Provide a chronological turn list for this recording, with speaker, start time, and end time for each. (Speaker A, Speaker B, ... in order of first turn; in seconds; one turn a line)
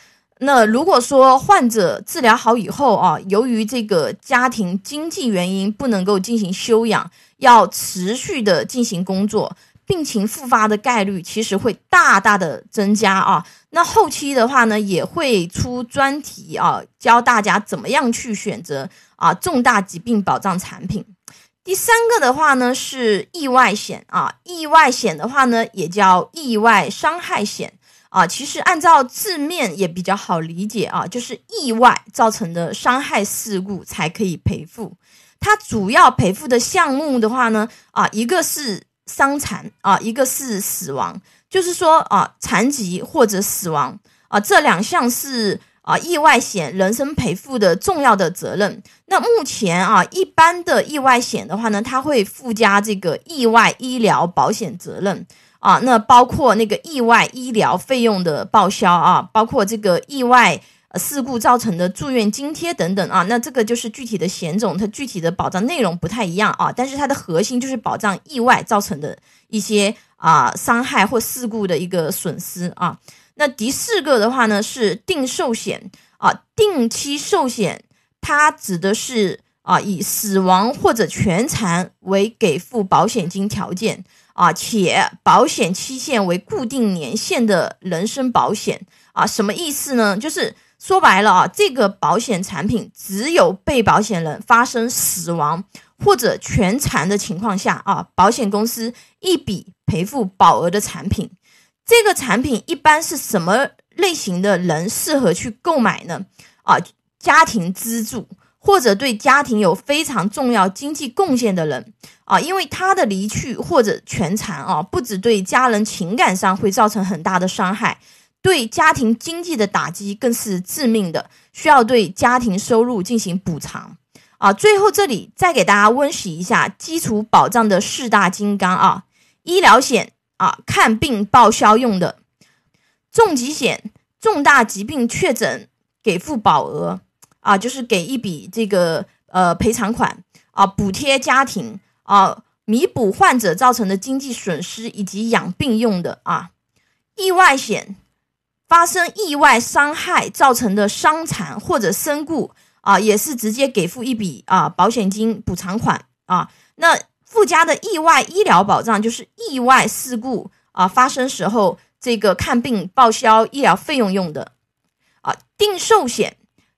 Speaker A: 0.4-21.1
Speaker A: 21.6-101.3
Speaker A: 101.9-132.2
Speaker A: 133.1-146.5
Speaker A: 147.2-148.0
Speaker A: 148.7-164.5
Speaker A: 165.2-166.4